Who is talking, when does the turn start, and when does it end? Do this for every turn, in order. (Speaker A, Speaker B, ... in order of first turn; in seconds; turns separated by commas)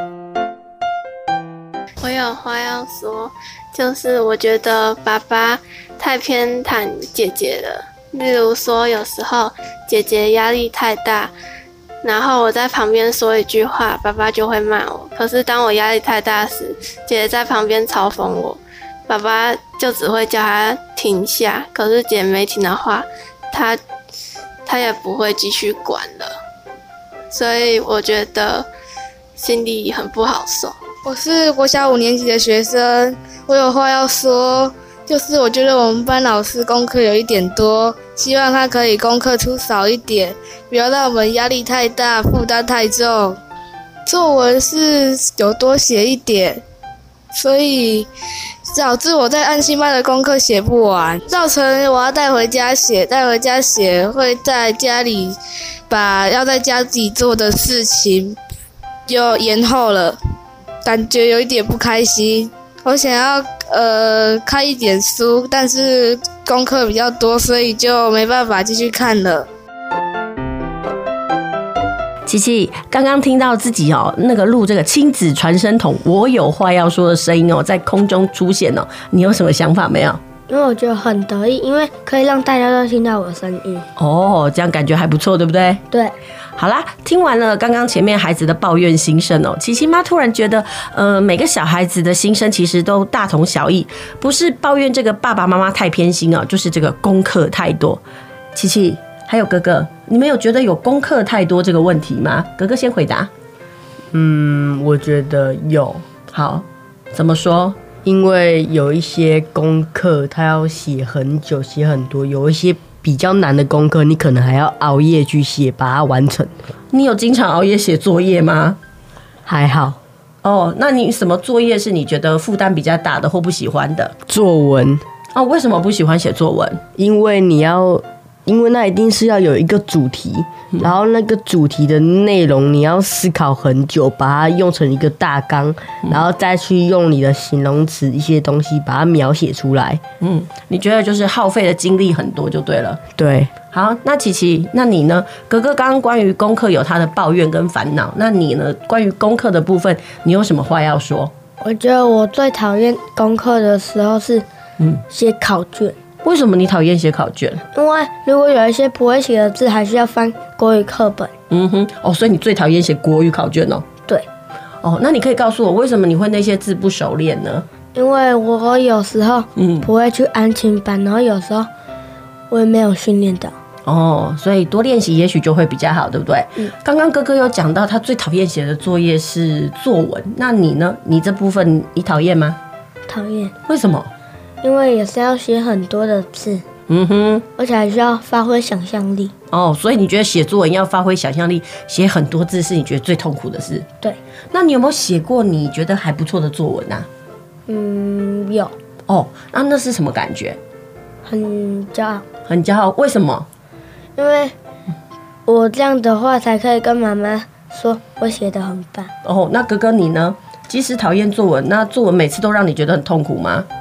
Speaker A: 2.0-11.3, Speaker A: 12.0-23.8, Speaker A: 24.7-26.4, Speaker A: 27.3-28.7, Speaker A: 29.4-30.8, Speaker B: 31.0-43.4, Speaker B: 44.1-46.6, Speaker B: 47.3-48.1, Speaker B: 48.7-55.4, Speaker B: 55.9-58.4, Speaker B: 59.1-60.2, Speaker B: 60.8-69.5, Speaker C: 72.3-80.2, Speaker D: 80.5-83.9, Speaker C: 84.0-85.8, Speaker C: 86.6-98.0, Speaker C: 98.5-103.3, Speaker E: 104.1-106.0, Speaker C: 106.3-107.8, Speaker E: 108.0-116.5, Speaker C: 116.9-118.8, Speaker E: 119.5-120.0, Speaker C: 120.4-124.1, Speaker E: 124.3-125.0, Speaker C: 125.3-126.8, Speaker E: 127.0-140.0, Speaker C: 140.2-143.0, Speaker E: 143.2-143.5, Speaker C: 143.7-151.3, Speaker D: 151.6-154.5, Speaker D: 155.1-156.0, Speaker C: 156.2-157.6, Speaker D: 157.7-161.3, Speaker C: 161.5-163.8, Speaker C: 164.8-167.7, Speaker D: 167.9-171.7, Speaker C: 169.6-169.9, Speaker D: 172.5-173.6, Speaker C: 173.9-182.6, Speaker D: 183.1-183.5, Speaker C: 183.7-184.1, Speaker D: 184.6-186.7, Speaker C: 186.9-187.5, Speaker D: 187.6-189.3, Speaker C: 189.5-193.9, Speaker C: 194.5-197.1, Speaker D: 197.7-198.8, Speaker C: 199.1-200.6, Speaker D: 201.2-202.2, Speaker C: 202.5-203.5, Speaker D: 204.2-204.6, Speaker D: 205.5-209.1, Speaker C: 209.2-213.7